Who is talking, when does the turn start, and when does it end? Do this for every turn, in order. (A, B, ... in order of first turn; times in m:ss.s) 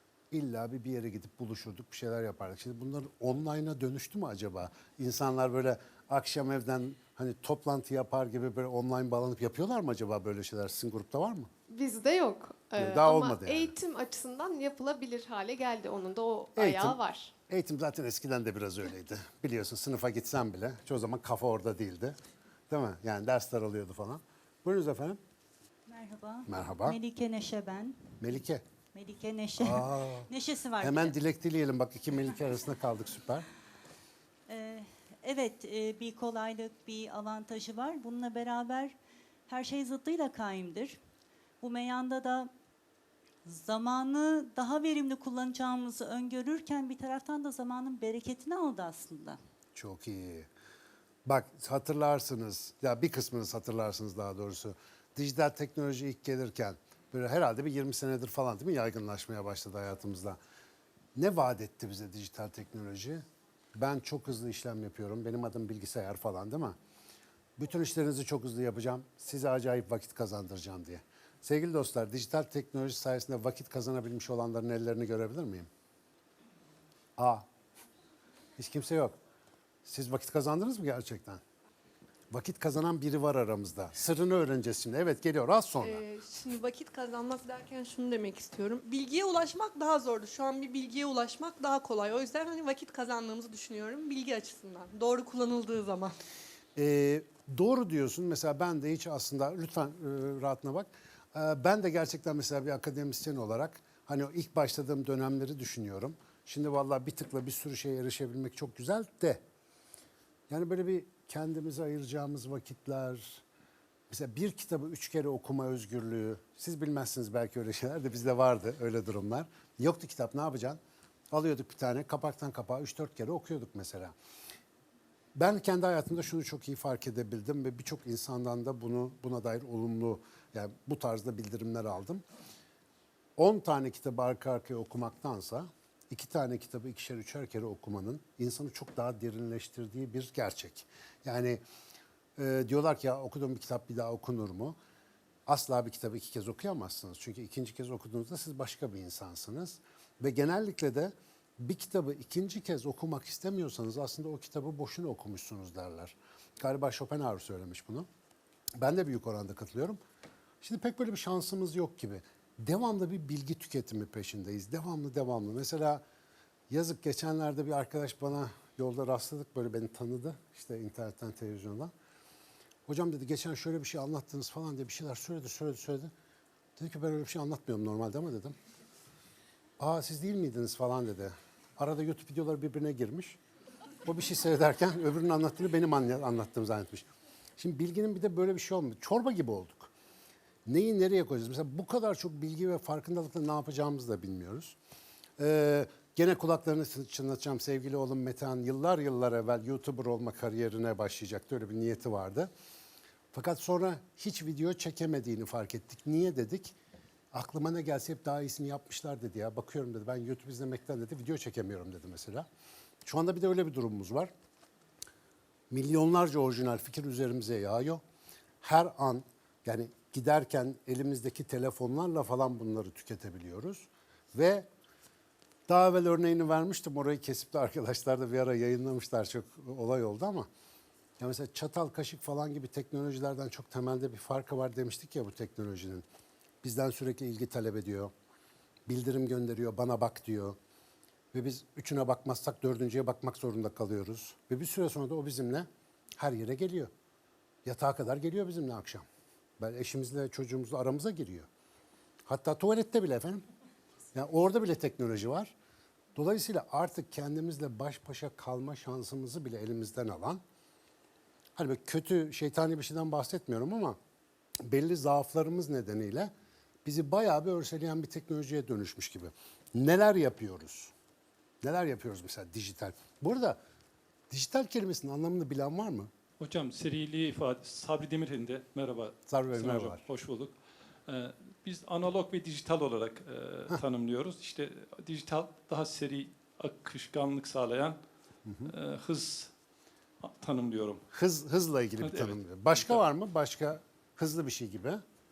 0:00.3-0:11.5 A
0:11.7-0:17.3 B
0:12.8-0:13.7 A
0:16.6-0:22.2 A
0:22.7-0:25.2 A
0:25.9-0:28.2 C
0:26.4-0:27.0 A
0:28.2-0:28.6 A
0:28.9-0:31.2 C
0:29.6-0:33.4 A
0:34.5-0:39.0 C
0:39.5-0:41.0 C
0:41.6-0:42.5 C
0:43.4-0:49.4 C
0:49.7-0:50.5 A
0:51.2-1:00.4 A
1:01.2-1:03.2 A
1:03.7-1:06.8 A
1:07.6-1:15.7 A
1:17.2-1:17.4 A
1:18.6-1:19.2 A
1:19.8-1:21.4 A
1:22.3-1:26.0 A
1:25.8-1:36.2 D
1:36.8-1:49.4 A
1:50.5-1:53.4 A
1:54.1-2:00.8 A
2:01.3-2:04.1 A
2:05.4-2:12.2 A
2:13.4-2:21.6 A
2:22.4-2:24.8 A
2:25.5-2:38.1 A
2:38.8-2:40.0 A
2:40.6-2:46.0 A
2:46.7-2:51.9 A
2:52.9-2:56.1 A
2:56.8-2:58.5 A
2:59.8-3:03.4 A
3:04.0-3:07.1 A
3:07.6-3:09.9 A
3:10.6-3:14.8 A
3:15.4-3:22.5 A
3:23.3-3:26.7 A
3:27.3-3:32.4 A
3:33.0-3:34.3 A
3:35.7-3:38.0 A
3:38.6-3:44.7 A
3:45.7-3:50.5 A
3:51.2-3:56.0 A
3:56.6-3:58.1 A
3:58.9-4:00.6 A
4:01.3-4:05.7 A
4:06.2-4:06.9 A
4:07.6-4:09.0 A
4:09.6-4:11.5 A
4:12.3-4:13.4 A
4:14.1-4:15.5 A
4:16.2-4:20.4 A
4:21.6-4:24.0 A
4:24.6-4:26.3 A
4:26.8-4:30.9 A
4:31.6-4:33.6 A
4:34.3-4:36.1 A
4:36.4-4:40.5 E
4:39.3-4:40.0 A
4:41.1-4:48.0 E
4:48.4-4:48.7 A
4:48.6-4:49.5 E
4:50.2-4:51.0 E
4:51.1-4:55.0 A
4:52.0-4:53.0 E